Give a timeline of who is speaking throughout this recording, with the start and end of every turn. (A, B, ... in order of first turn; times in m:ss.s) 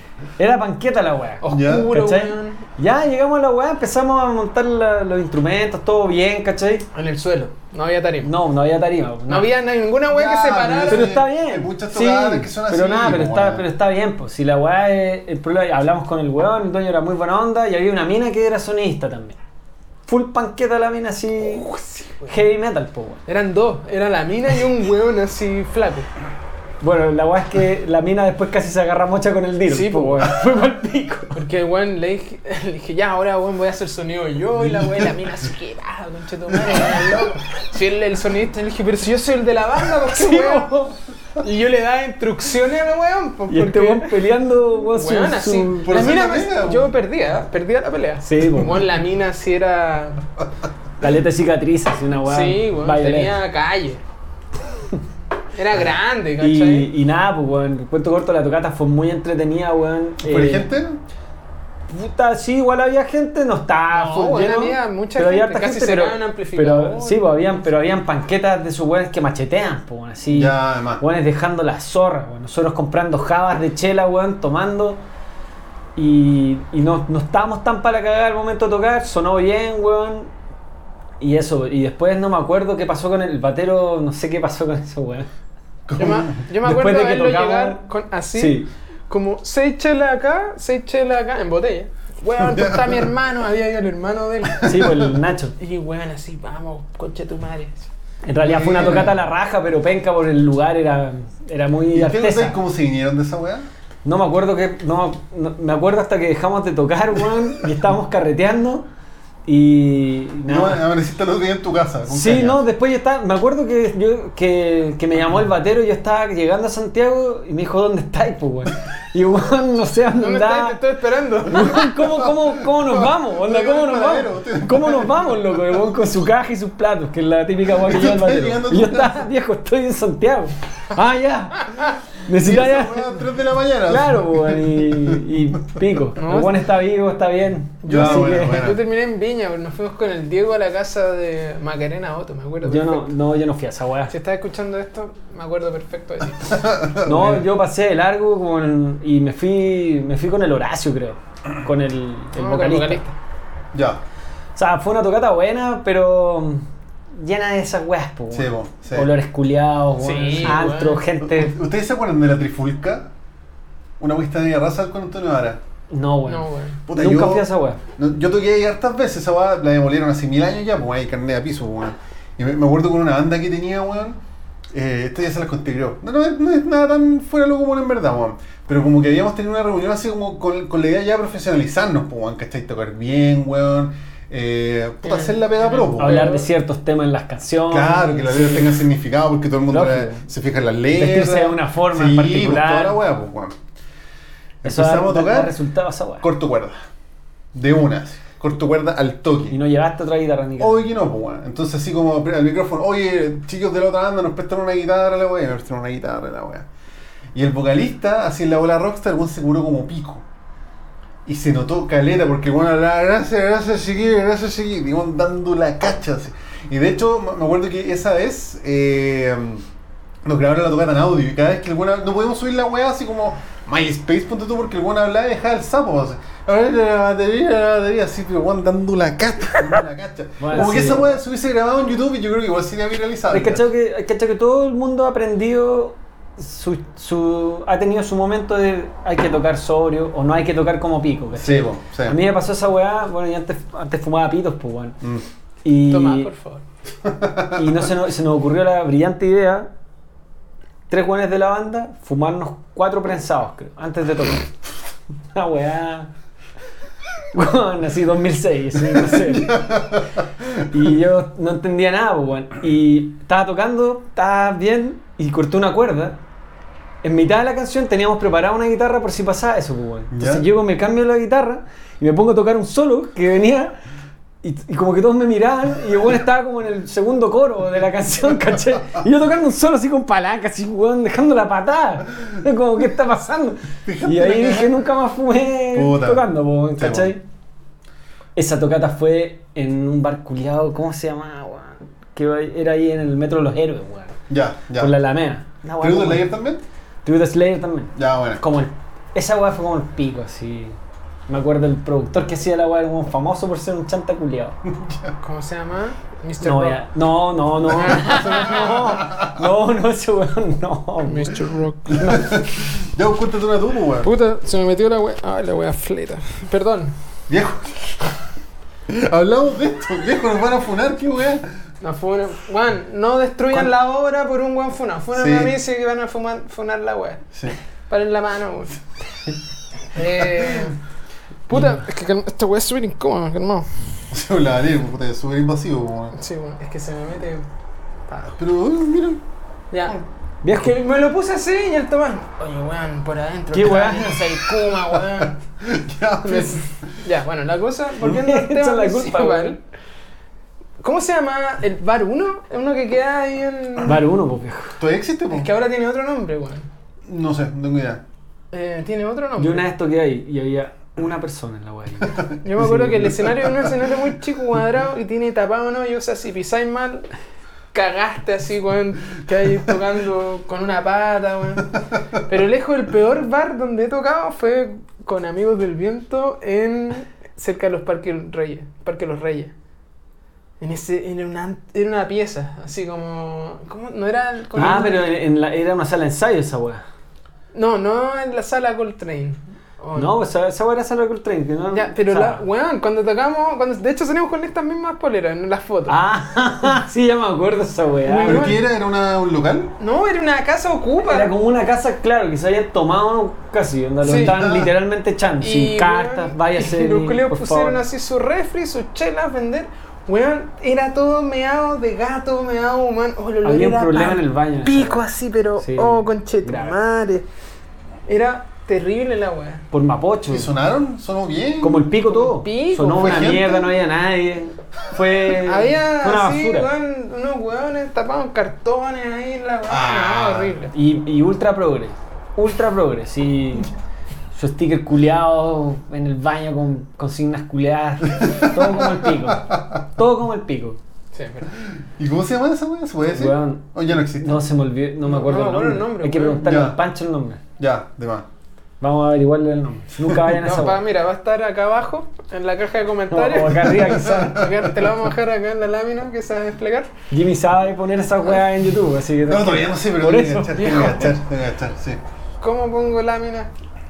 0:00.4-0:06.8 A
0:01.4-0:02.6 B
0:01.5-0:01.9 C
0:06.9-0:08.3 B
0:08.2-0:09.5 A
0:09.3-0:11.1 B
0:10.1-0:13.7 C
0:10.9-0:19.4 A
0:20.1-0:21.7 A
0:21.4-0:22.3 B
0:22.2-0:23.2 A
0:23.3-0:26.1 B
0:26.8-0:31.4 A
0:29.7-0:30.3 B
0:31.3-0:40.7 B
0:34.6-0:35.1 C
0:36.5-0:37.2 C
0:40.1-0:41.0 A
0:41.4-0:44.2 B
0:43.5-0:46.0 A
0:44.9-0:50.2 B
0:45.8-0:46.9 C
0:48.2-0:48.8 A
0:51.0-0:53.4 A
0:52.2-0:54.0 B
0:55.5-0:56.9 B
0:56.4-1:00.7 A
1:00.2-1:01.0 C
1:01.9-1:15.0 A
1:03.9-1:07.6 B
1:10.3-1:11.0 C
1:16.0-1:20.3 A
1:21.2-1:25.3 A
1:25.8-1:26.4 C
1:26.0-1:34.9 B
1:26.6-1:27.8 A
1:28.3-1:28.7 A
1:32.4-1:33.1 C
1:34.6-1:35.1 C
1:34.6-1:35.5 A
1:35.6-1:37.9 B
1:38.2-1:42.6 A
1:38.4-1:39.2 C
1:41.9-1:43.7 C
1:44.0-1:48.8 A
1:49.4-1:50.8 A
1:50.5-1:52.6 C
1:52.1-2:00.8 A
2:00.2-2:01.8 B
2:01.4-2:13.2 A
2:02.1-2:05.6 C
2:07.7-2:09.3 C
2:12.3-2:15.2 C
2:13.8-2:18.7 A
2:16.2-2:16.6 B
2:17.8-2:23.1 B
2:17.9-2:18.8 C
2:22.6-2:24.1 A
2:24.1-2:26.6 B
2:26.5-2:27.4 C
2:27.0-2:33.0 A
2:32.4-2:33.1 B
2:33.7-2:34.0 C
2:34.6-2:41.6 A
2:38.3-2:39.1 C
2:40.0-2:41.0 B
2:41.2-2:43.1 C
2:44.0-2:45.6 C
2:45.9-2:47.8 A
2:46.3-2:46.8 B
2:46.9-2:47.4 C
2:48.0-2:54.2 C
2:54.7-3:06.3 C
3:05.0-3:06.4 B
3:06.0-3:08.7 A
3:07.7-3:13.6 C
3:09.7-3:10.2 A
3:10.9-3:13.0 A
3:14.6-3:15.5 C
3:14.6-3:16.2 A
3:16.2-3:16.7 C
3:17.5-3:19.6 C
3:19.5-3:20.9 A
3:20.6-3:26.7 C
3:27.3-3:30.2 C
3:31.2-3:39.6 C
3:40.2-3:53.7 C
3:50.4-3:51.1 A
3:53.3-4:05.0 A
4:01.3-4:02.2 C
4:05.6-4:06.3 A
4:05.9-4:06.6 B
4:07.0-4:07.7 C
4:07.5-4:09.7 A
4:10.9-4:14.6 A
4:15.3-4:16.1 A
4:17.3-4:19.8 A
4:18.9-4:20.7 C
4:20.7-4:26.2 A
4:27.0-4:33.8 A
4:30.1-4:30.4 C
4:34.4-4:47.2 A
4:43.8-4:44.8 C
4:45.7-4:47.1 C
4:48.4-4:54.2 A
4:54.3-4:54.9 C
4:54.8-4:56.3 A
4:55.8-4:56.6 C
4:57.0-5:00.8 A
4:58.0-4:58.4 C
5:01.3-5:04.6 A
5:04.7-5:05.2 C
5:05.2-5:06.8 B
5:06.4-5:11.3 A
5:07.7-5:09.4 C
5:07.8-5:08.6 B
5:11.0-5:12.2 B
5:11.9-5:14.1 C
5:12.0-5:12.4 A
5:14.0-5:16.9 B
5:17.3-5:18.0 C
5:18.9-5:21.5 C
5:21.8-5:27.2 B
5:25.1-5:25.6 C
5:27.9-5:28.8 B
5:29.9-5:30.8 B
5:30.4-5:30.7 C
5:31.5-5:33.9 B
5:34.1-5:36.1 C
5:36.1-5:37.4 B
5:38.1-5:38.4 B
5:38.4-5:39.2 C
5:39.7-5:40.0 B
5:40.4-5:40.7 A
5:40.5-5:45.4 B
5:43.5-5:44.3 A
5:44.9-5:46.7 C
5:46.2-5:49.6 B
5:48.0-5:49.6 A
5:50.8-5:54.0 B
5:53.8-5:54.8 A
5:54.8-5:55.5 C
5:55.3-5:56.7 B
5:57.0-5:58.0 C
5:58.5-5:59.7 B
5:59.4-6:03.1 A
6:02.4-6:07.1 B
6:03.1-6:03.7 C
6:07.7-6:19.5 B
6:20.6-6:25.1 B
6:24.5-6:26.8 A
6:27.5-6:30.1 B
6:30.0-6:32.4 A
6:31.7-6:36.0 B
6:35.9-6:38.5 A
6:38.0-6:38.6 B
6:38.2-6:39.7 C
6:39.8-6:41.3 B
6:41.0-6:47.8 A
6:44.0-6:44.4 B
6:44.0-6:44.7 C
6:45.4-6:57.2 B
6:53.4-6:55.0 A
6:55.6-6:56.8 A
6:58.1-6:59.6 B
6:59.7-7:00.5 A
7:00.3-7:01.9 C
7:01.6-7:06.7 A
7:02.1-7:03.4 B
7:03.0-7:03.7 C
7:05.3-7:10.7 B
7:09.7-7:10.6 C
7:10.7-7:13.7 A
7:14.3-7:20.8 A
7:18.1-7:19.8 C
7:21.1-7:21.5 B
7:22.0-7:24.4 C
7:23.1-7:27.4 A
7:25.0-7:26.4 B
7:26.4-7:26.8 C
7:27.6-7:28.3 C
7:28.8-7:30.8 A
7:30.3-7:36.9 B
7:33.1-7:34.4 A
7:34.1-7:34.5 C
7:37.1-7:41.0 A
7:39.2-7:42.0 C
7:40.6-7:41.1 B
7:42.4-7:43.5 B